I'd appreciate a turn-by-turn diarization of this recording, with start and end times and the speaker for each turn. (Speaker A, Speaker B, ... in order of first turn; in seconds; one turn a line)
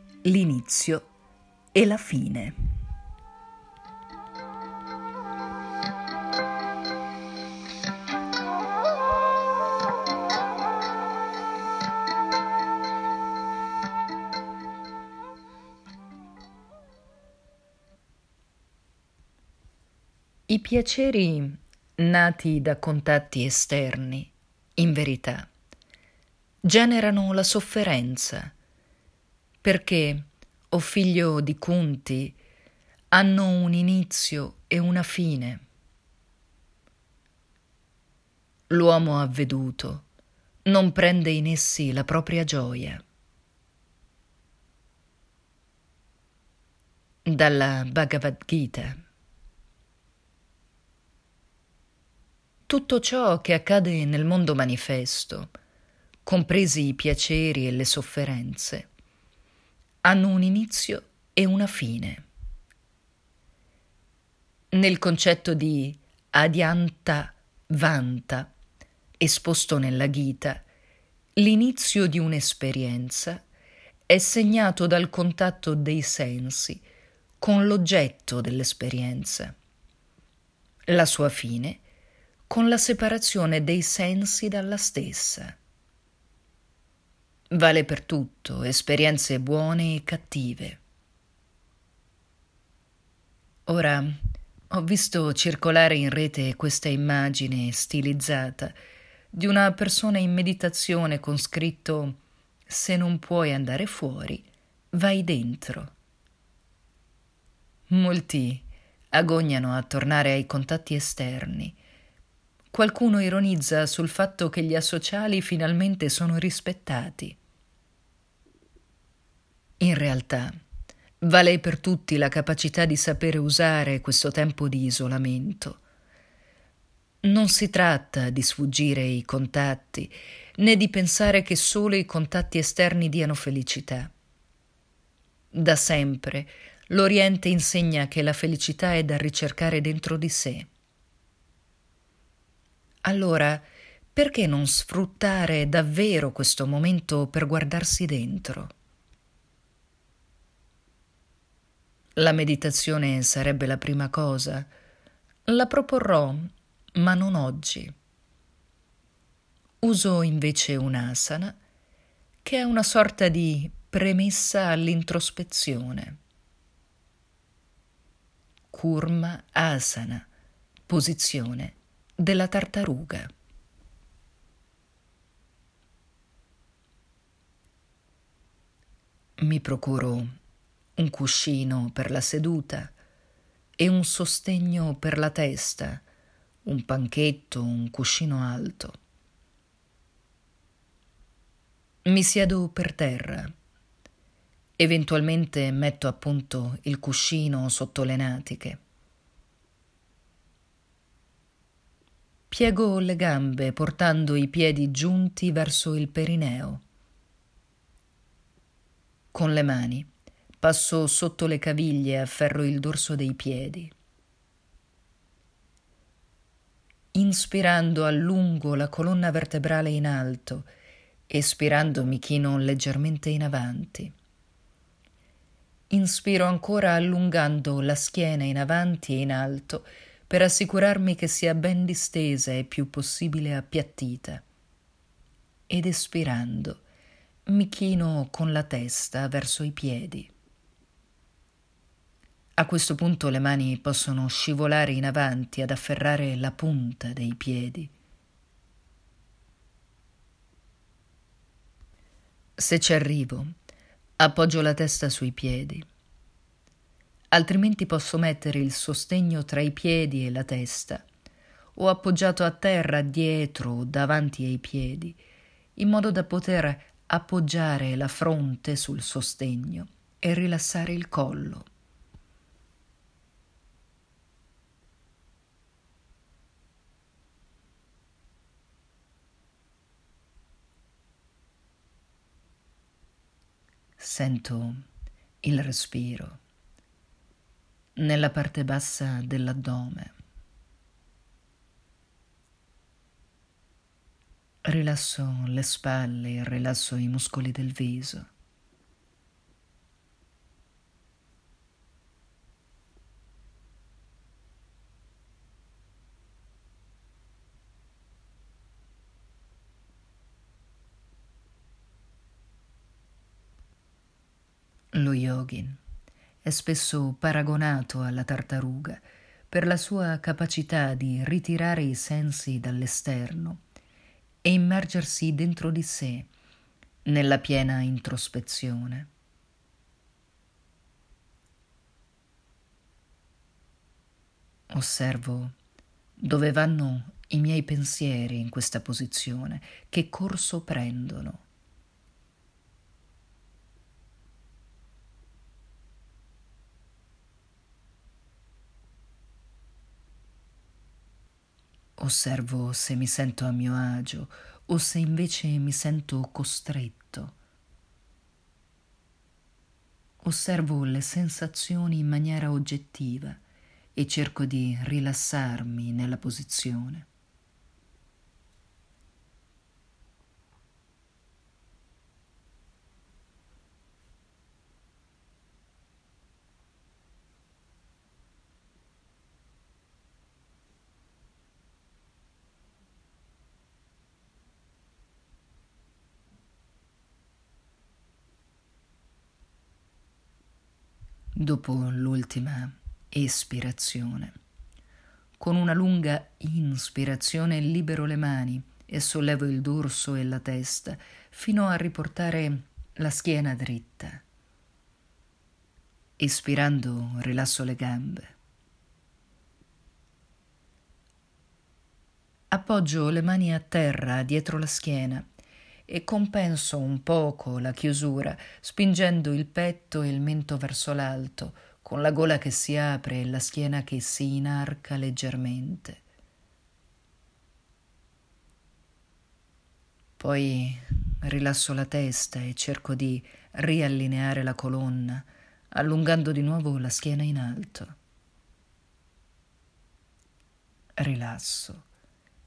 Speaker A: 0.2-1.1
Speaker A: 1.7-2.6
Speaker A: 20.5-25.5
Speaker A: 26.6-28.5
Speaker A: 29.6-32.4
Speaker A: 33.1-35.6
Speaker A: 38.7-40.1
Speaker A: 40.6-43.0
Speaker A: 47.3-49.0
Speaker A: 52.7-55.5
Speaker A: 56.2-58.9
Speaker A: 60.0-62.3
Speaker A: 64.7-68.5
Speaker A: 69.2-70.7
Speaker A: 71.4-73.4
Speaker A: 74.1-76.8
Speaker A: 77.4-79.6
Speaker A: 80.9-81.8
Speaker A: 82.5-85.6
Speaker A: 87.5-90.8
Speaker A: 93.7-98.8
Speaker A: 99.3-105.9
Speaker A: 107.9-111.8
Speaker A: 112.7-117.4
Speaker A: 119.8-120.6
Speaker A: 121.2-125.8
Speaker A: 127.2-134.1
Speaker A: 135.5-140.7
Speaker A: 143.0-148.7
Speaker A: 152.2-154.7
Speaker A: 155.5-157.9
Speaker A: 159.8-161.6
Speaker A: 162.4-166.2
Speaker A: 168.7-170.3
Speaker A: 170.9-173.3
Speaker A: 179.4-180.3
Speaker A: 181.0-182.9
Speaker A: 183.8-186.0
Speaker A: 186.7-189.0
Speaker A: 192.1-193.5
Speaker A: 194.8-198.8
Speaker A: 202.5-206.8
Speaker A: 209.3-213.9
Speaker A: 217.1-220.7
Speaker A: 221.3-224.1
Speaker A: 225.9-234.4
Speaker A: 235.7-236.8
Speaker A: 237.5-240.3
Speaker A: 242.6-247.9
Speaker A: 252.6-253.5
Speaker A: 254.2-255.9
Speaker A: 257.3-261.1
Speaker A: 261.8-265.2
Speaker A: 265.8-271.7
Speaker A: 284.0-284.8
Speaker A: 285.4-286.4
Speaker A: 288.0-290.1
Speaker A: 294.6-298.3
Speaker A: 314.9-315.8
Speaker A: 316.4-323.6
Speaker A: 324.4-326.3
Speaker A: 327.1-329.1
Speaker A: 334.7-335.6
Speaker A: 336.2-341.4
Speaker A: 352.0-357.4
Speaker A: 360.2-363.4
Speaker A: 363.9-367.1
Speaker A: 391.4-394.4
Speaker A: 395.4-404.2
Speaker A: 406.2-408.4
Speaker A: 412.5-415.3
Speaker A: 415.9-426.0
Speaker A: 430.2-437.9
Speaker A: 441.0-441.9